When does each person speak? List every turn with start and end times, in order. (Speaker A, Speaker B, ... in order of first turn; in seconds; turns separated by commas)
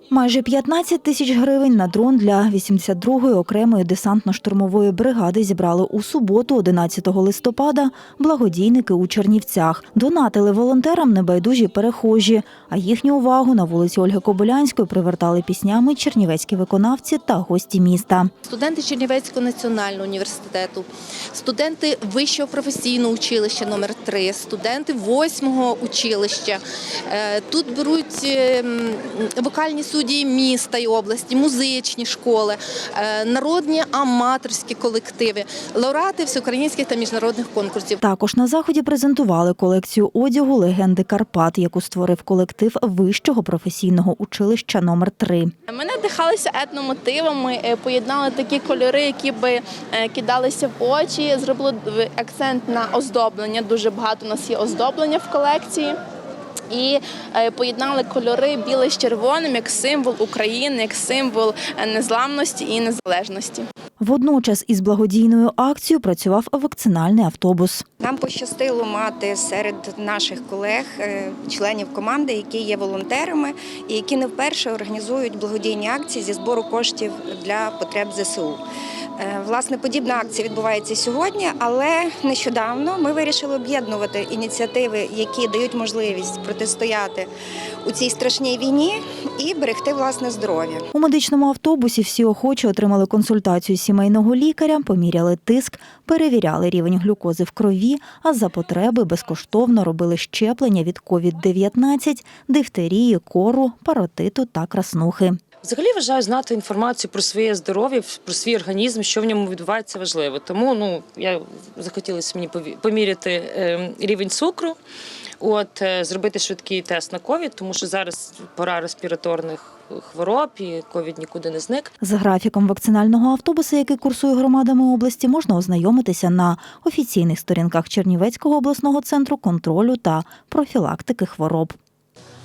Speaker A: 0.1-18.3, Speaker B: 18.4-38.0, Speaker A: 38.0-45.5, Speaker C: 45.7-56.0, Speaker C: 56.7-63.7, Speaker A: 64.0-67.8, Speaker D: 68.0-78.6, Speaker D: 79.2-87.3, Speaker D: 87.8-90.8, Speaker A: 90.9-105.4, Speaker E: 105.6-114.8, Speaker E: 115.4-121.9, Speaker A: 122.0-131.8